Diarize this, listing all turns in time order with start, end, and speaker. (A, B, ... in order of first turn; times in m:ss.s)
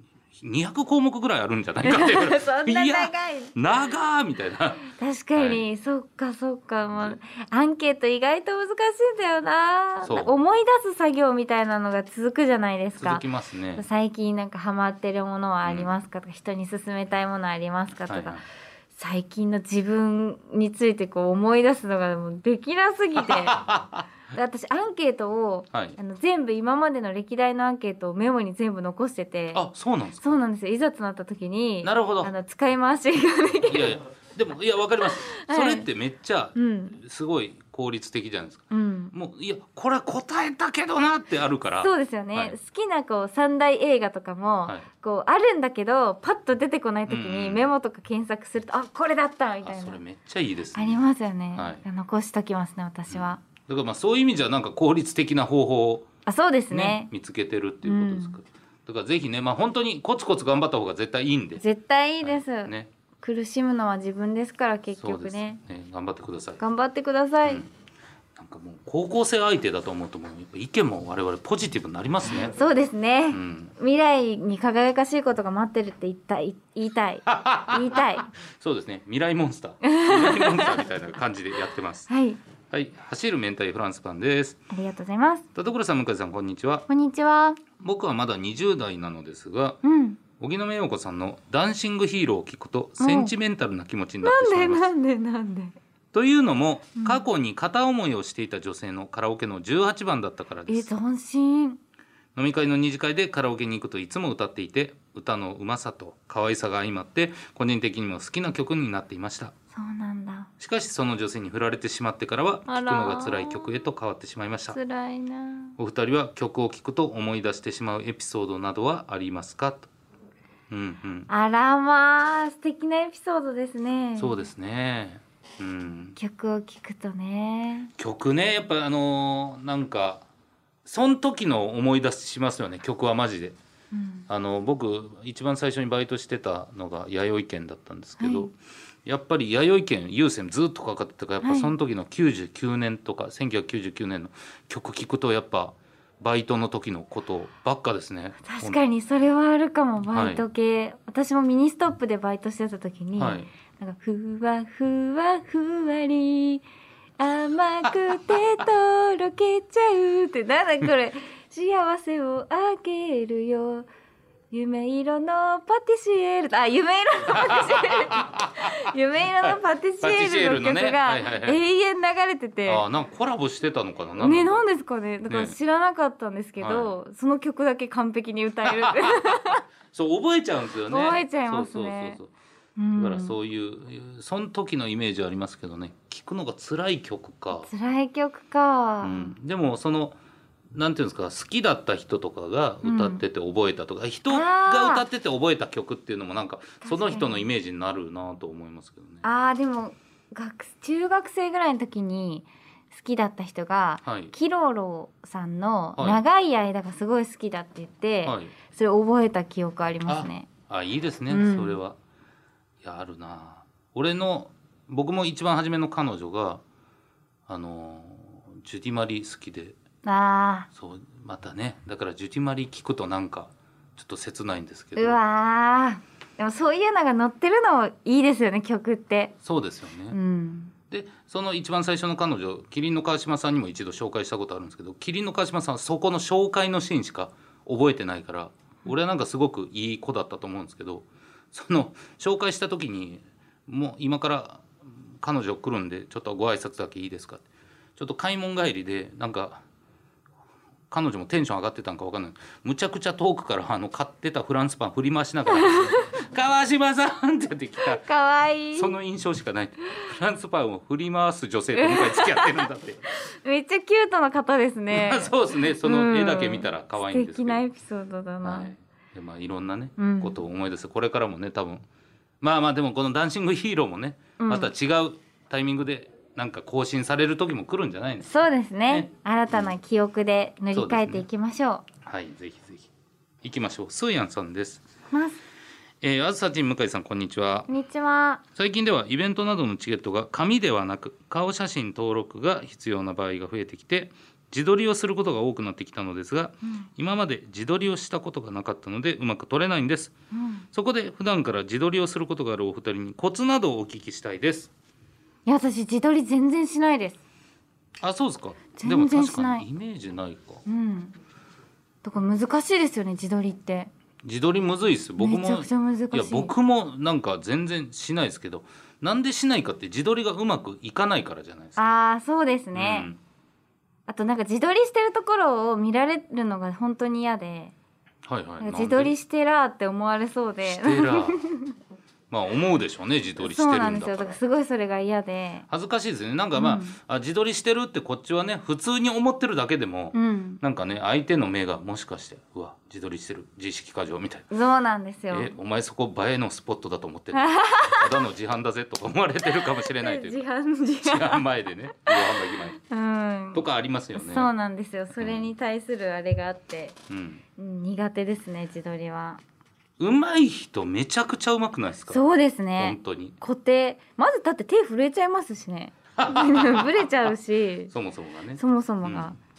0:00.3-0:05.6 A
0:01.8-0:03.6 B
0:05.0-0:13.2 B
0:06.9-0:07.2 A
0:10.0-0:10.3 A
0:13.0-0:13.8 A
0:13.8-0:18.4 B
0:18.1-0:18.4 A
0:18.9-0:23.6 B
0:23.2-0:24.0 A
0:24.3-0:29.6 B
0:25.7-0:26.0 A
0:29.5-0:30.4 A
0:30.2-0:34.0 B
0:31.8-0:32.3 A
0:33.6-0:42.6 A
0:35.2-0:35.9 B
0:36.5-0:37.0 B
0:38.7-0:39.1 B
0:41.8-0:50.0 B
0:47.1-0:47.7 A
0:49.6-0:51.0 A
0:50.7-0:53.4 B
0:51.6-0:51.8 A
0:53.1-0:56.0 A
0:56.2-0:57.1 B
0:56.7-1:01.6 A
0:57.8-0:58.4 B
1:01.6-1:05.6 B
1:02.2-1:02.9 A
1:05.0-1:06.6 A
1:06.6-1:07.6 B
1:08.4-1:12.6 A
1:12.3-1:18.3 B
1:13.3-1:13.7 A
1:17.3-1:22.1 A
1:19.8-1:20.8 B
1:22.1-1:22.4 B
1:22.7-1:24.6 A
1:24.7-1:25.4 B
1:25.5-1:26.8 A
1:26.9-1:27.6 B
1:27.8-1:29.8 A
1:29.8-1:30.2 B
1:30.4-1:34.9 A
1:33.0-1:33.3 B
1:34.2-1:35.8 B
1:36.1-1:40.9 A
1:40.7-1:41.8 B
1:42.4-1:49.5 A
1:49.7-1:50.5 B
1:50.6-1:54.8 A
1:52.7-1:53.8 B
1:54.7-1:55.8 B
1:55.8-1:59.9 A
2:00.7-2:01.3 A
2:01.3-2:04.5 B
2:04.2-2:06.2 A
2:06.2-2:07.9 B
2:08.0-2:10.2 A
2:10.8-2:13.6 A
2:13.9-2:14.3 B
2:14.3-2:28.8 A
2:18.2-2:18.5 B
2:21.4-2:21.7 B
2:28.4-2:36.6 B
2:30.1-2:30.4 A
2:33.2-2:33.5 A
2:37.2-2:43.9 B
2:44.5-2:52.8 B
2:47.3-2:48.7 A
2:49.4-2:51.6 A
2:52.6-2:54.6 A
2:54.2-2:59.6 B
2:55.3-2:55.5 A
2:56.6-2:56.9 A
2:58.6-3:02.3 A
3:00.9-3:02.2 B
3:02.8-3:03.4 B
3:02.9-3:07.7 A
3:07.6-3:09.3 B
3:09.0-3:10.2 A
3:10.7-3:19.2 A
3:12.8-3:13.2 B
3:14.3-3:15.0 B
3:16.8-3:17.4 B
3:19.2-3:30.5 B
3:24.0-3:24.3 A
3:26.0-3:26.2 A
3:28.2-3:28.5 A
3:30.1-3:32.0 A
3:31.3-3:31.8 B
3:32.8-3:36.6 A
3:37.5-3:39.8 A
3:40.0-3:40.7 B
3:40.7-3:45.2 A
3:45.0-3:49.3 B
3:49.4-3:50.2 A
3:50.1-3:50.7 B
3:50.9-4:07.4 A
4:08.0-4:09.6 A
4:10.9-4:18.0 A
4:15.5-4:16.1 B
4:17.9-4:18.9 B
4:18.7-4:23.0 A
4:21.7-4:28.7 B
4:24.9-4:27.6 A
4:28.4-4:31.8 A
4:30.0-4:30.4 B
4:32.4-4:38.3 A
4:34.4-4:34.7 B
4:38.2-4:41.8 B
4:38.9-4:39.7 A
4:40.7-4:41.3 A
4:42.0-4:42.9 A
4:43.4-4:44.8 A
4:45.1-4:45.4 B
4:46.0-4:47.7 A
4:47.7-4:48.4 B
4:48.5-5:00.1 A
5:00.3-5:00.6 B
5:00.7-5:04.7 A
5:05.4-5:07.2 B
5:08.0-5:10.6 A
5:08.8-5:09.6 B
5:10.6-5:11.2 B
5:12.0-5:13.9 B
5:14.2-5:21.8 A
5:15.2-5:16.5 B
5:21.8-5:23.1 B
5:22.7-5:23.2 A
5:24.1-5:27.7 B
5:28.2-5:29.1 A
5:28.6-5:31.7 B
5:30.6-5:31.4 A
5:32.3-5:34.4 A
5:33.4-5:35.6 B
5:35.7-5:44.5 A
5:36.6-5:37.0 B
5:40.1-5:40.6 B
5:44.5-5:45.5 B
5:45.3-5:50.4 A
5:47.3-5:48.1 B
5:49.8-5:51.4 B
5:51.0-5:52.8 A
5:52.2-5:57.0 B
5:53.5-5:54.5 A
5:55.2-5:55.5 A
5:57.1-5:57.4 A
5:57.6-5:59.4 B
6:00.0-6:02.2 A
6:02.1-6:07.9 B
6:02.8-6:03.4 A
6:06.2-6:07.0 A
6:07.9-6:09.3 A
6:08.6-6:09.4 B